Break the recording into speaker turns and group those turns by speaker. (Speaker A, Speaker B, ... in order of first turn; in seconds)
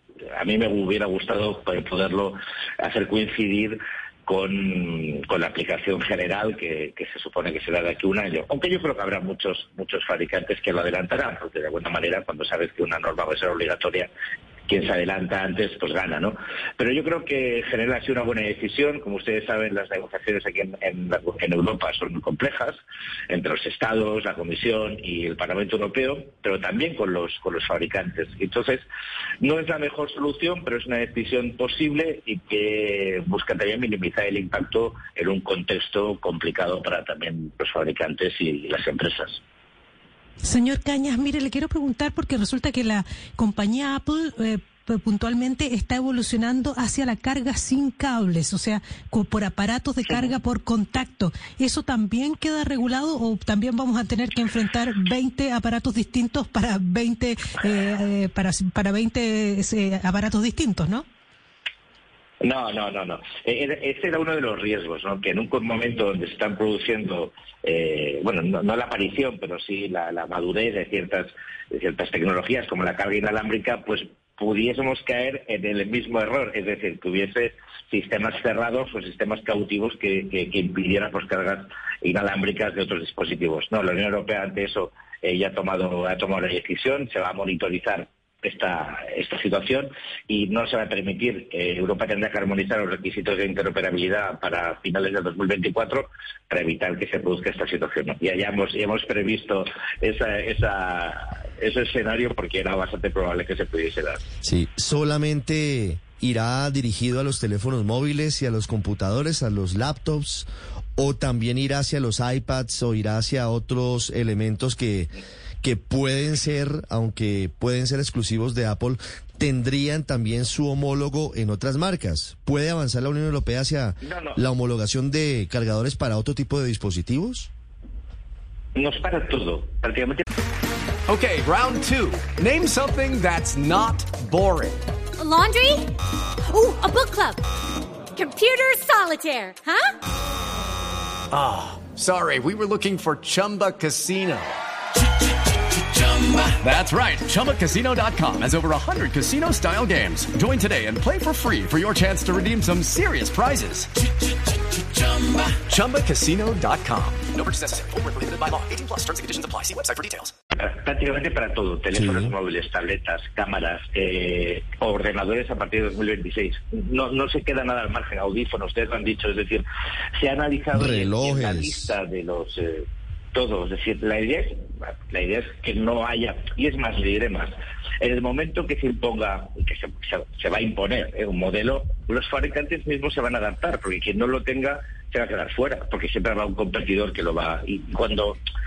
Speaker A: 0.4-14.1, 14.7-28.9, 29.4-39.4, 62.4-104.2, 124.0-124.4, 128.8-130.2, 160.6-169.7, 170.2-188.4
Speaker B: 40.4-61.0
Speaker C: 104.4-127.5, 161.9-162.3, 170.7-171.9
Speaker D: 131.1-134.9, 141.3-144.6, 145.9-153.9, 155.0-160.3
Speaker E: 135.2-135.9, 136.5-137.4, 138.2-139.9